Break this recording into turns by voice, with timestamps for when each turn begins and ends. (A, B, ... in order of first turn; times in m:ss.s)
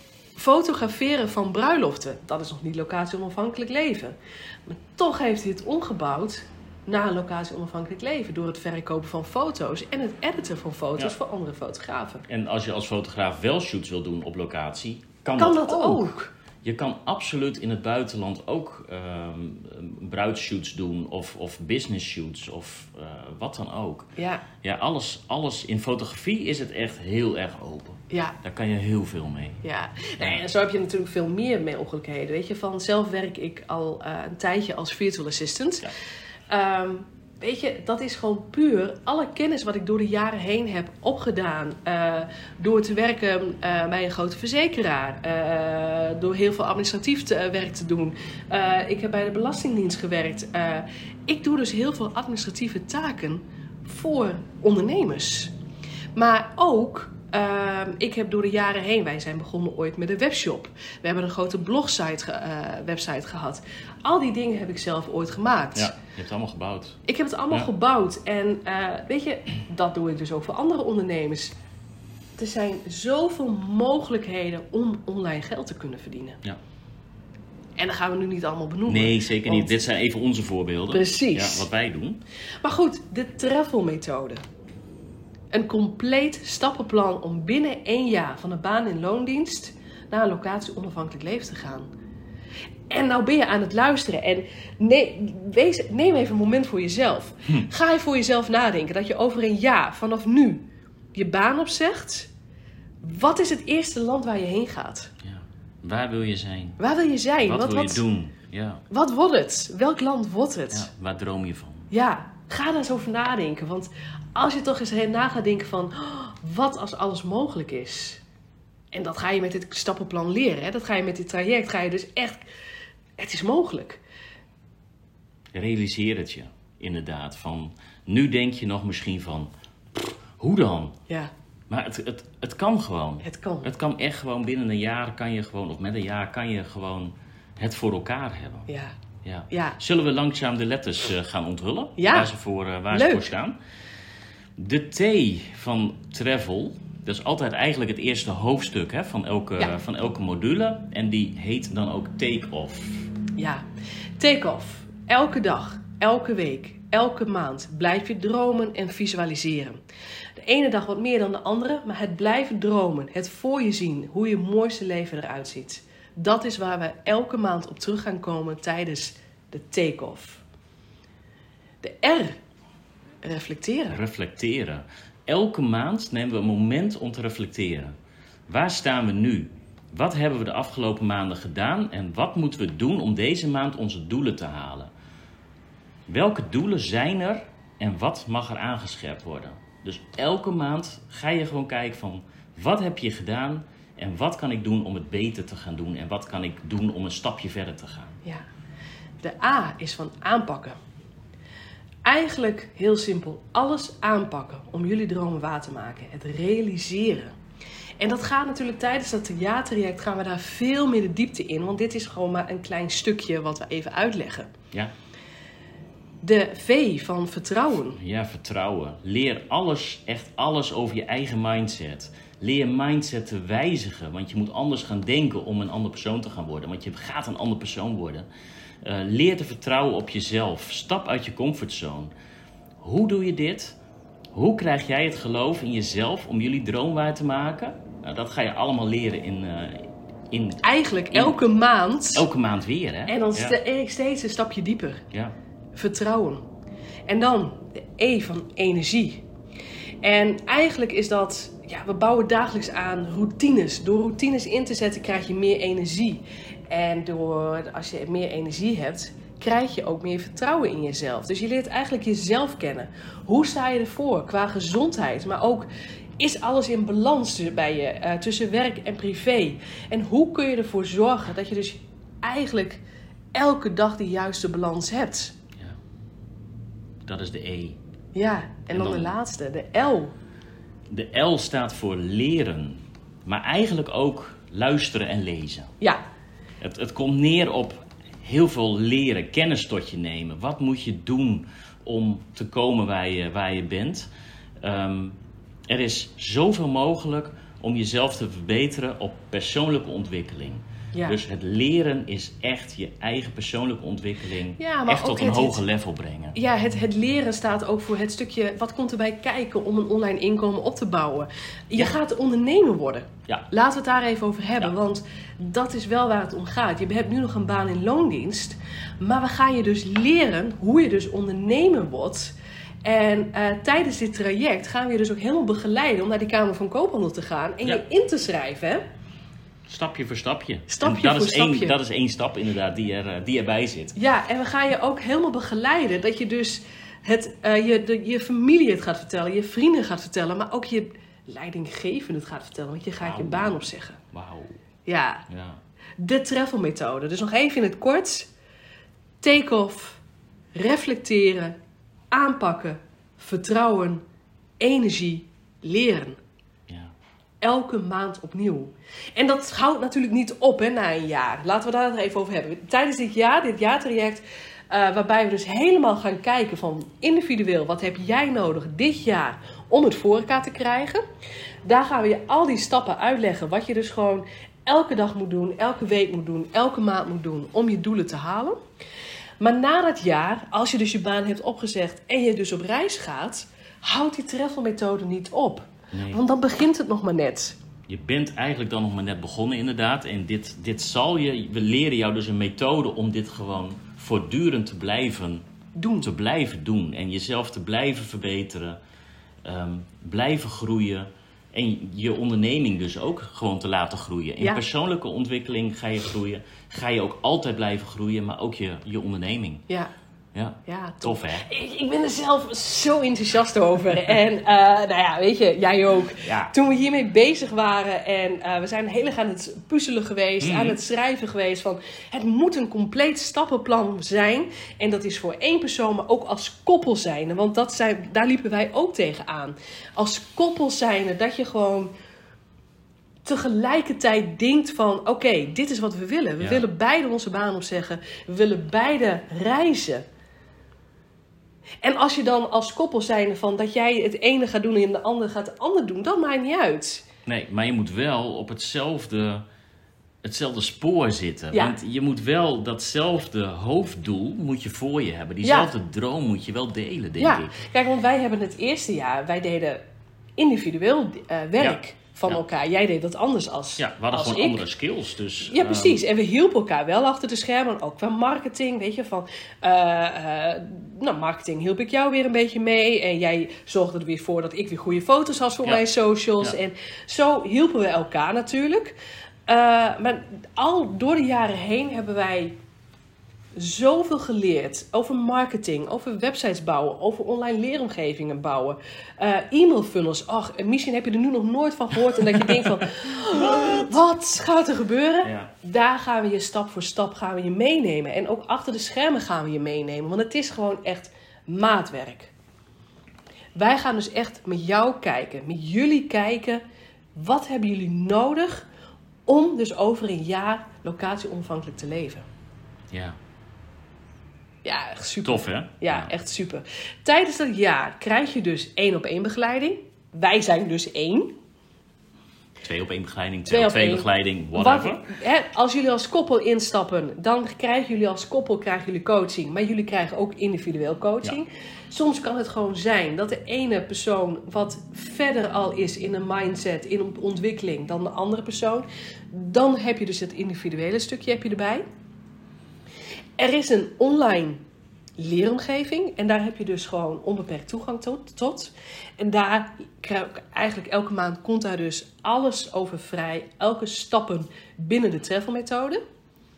0:00.4-0:12.3 A
0:12.3-0:16.1 B
0:15.4-0:16.3 A
0:16.6-0:24.1 B
0:24.2-0:24.5 A
0:24.6-0:29.6 B
0:28.1-0:28.4 A
0:29.6-0:35.9 A
0:30.2-0:30.4 B
0:36.5-0:55.5 A
0:56.2-1:06.0 A
1:05.8-1:07.0 B
1:07.1-1:11.6 A
1:12.4-1:16.4 A
1:17.8-1:19.8 A
1:18.9-1:22.2 B
1:20.9-1:21.7 A
1:22.6-1:24.4 A
1:25.5-1:31.9 A
1:32.9-1:42.3 A
1:43.0-1:45.1 A
1:45.2-1:46.8 B
1:46.8-1:48.0 A
1:47.4-1:48.8 B
1:48.9-1:50.9 A
1:50.7-1:51.9 B
1:51.9-1:58.2 A
1:58.9-2:02.4 A
2:03.2-2:04.0 A
2:05.5-2:11.0 B
2:11.7-2:18.7 B
2:13.2-2:13.7 A
2:18.7-2:19.0 A
2:19.2-2:23.6 B
2:19.5-2:19.8 A
2:22.0-2:22.3 A
2:22.9-2:23.3 A
2:24.6-2:33.1 B
2:33.4-2:33.6 A
2:34.2-2:39.8 A
2:40.4-2:50.4 A
2:51.8-2:52.4 A
2:53.2-2:54.0 A
2:53.9-2:58.0 B
2:58.5-3:04.9 B
3:06.1-3:18.2 B
3:19.2-3:20.8 A
3:22.0-3:27.4 A
3:28.0-3:34.5 A
3:36.2-3:38.0 A
3:38.0-3:48.3 B
3:48.8-3:52.1 B
3:52.8-3:53.8 B
3:54.3-4:01.4 B
4:00.6-4:02.3 A
4:02.1-4:03.6 B
4:03.1-4:05.0 A
4:05.8-4:06.4 A
4:07.1-4:09.2 A
4:10.0-4:25.7 A
4:26.2-4:32.8 A
4:33.3-4:35.4 A
4:37.0-4:37.8 B
4:38.2-4:40.1 A
4:38.7-4:39.1 B
4:40.9-4:45.7 B
4:46.6-4:54.1 B
4:54.6-5:06.4 B
5:00.9-5:01.2 A
5:04.6-5:05.6 A
5:06.4-5:28.8 A
5:29.7-5:34.0 B
5:30.7-5:31.8 A
5:34.0-5:44.0 A
5:43.0-5:44.6 B
5:44.9-5:45.3 A
5:45.3-5:45.6 B
5:46.0-5:48.3 A
5:49.2-5:50.0 A
5:50.6-5:51.6 A
5:52.1-5:54.0 A
5:54.6-5:56.2 A
5:56.7-5:57.0 B
5:57.4-6:11.0 A
6:11.6-6:18.6 A
6:19.4-6:27.6 A
6:25.9-6:26.2 B
6:27.9-6:35.5 B
6:35.8-6:36.1 A
6:36.0-6:38.8 B
6:39.4-6:49.6 B
6:50.3-6:51.5 B
6:50.7-7:11.9 A
6:56.2-6:56.5 B
7:00.4-7:00.8 B
7:13.2-7:20.0 A
7:21.8-7:27.1 A
7:27.3-7:29.4 B
7:30.2-7:37.6 B
7:31.5-7:31.8 A
7:35.4-7:35.7 A
7:37.2-7:39.8 A
7:40.4-7:44.6 A
7:41.6-7:42.4 B
7:43.8-7:46.0 B
7:45.4-7:59.0 A
7:59.5-8:02.6 A
8:03.6-8:22.3 A
8:12.4-8:12.6 B
8:13.4-8:13.8 B
8:15.2-8:15.5 B
8:23.6-8:26.6 A
8:27.2-8:28.7 A
8:29.3-8:32.3 A
8:32.9-8:33.2 B
8:34.6-8:41.3 A
8:35.2-8:36.1 B
8:42.6-8:45.1 B
8:43.5-9:01.8 A
9:03.4-9:04.6 A
9:05.2-9:16.0 A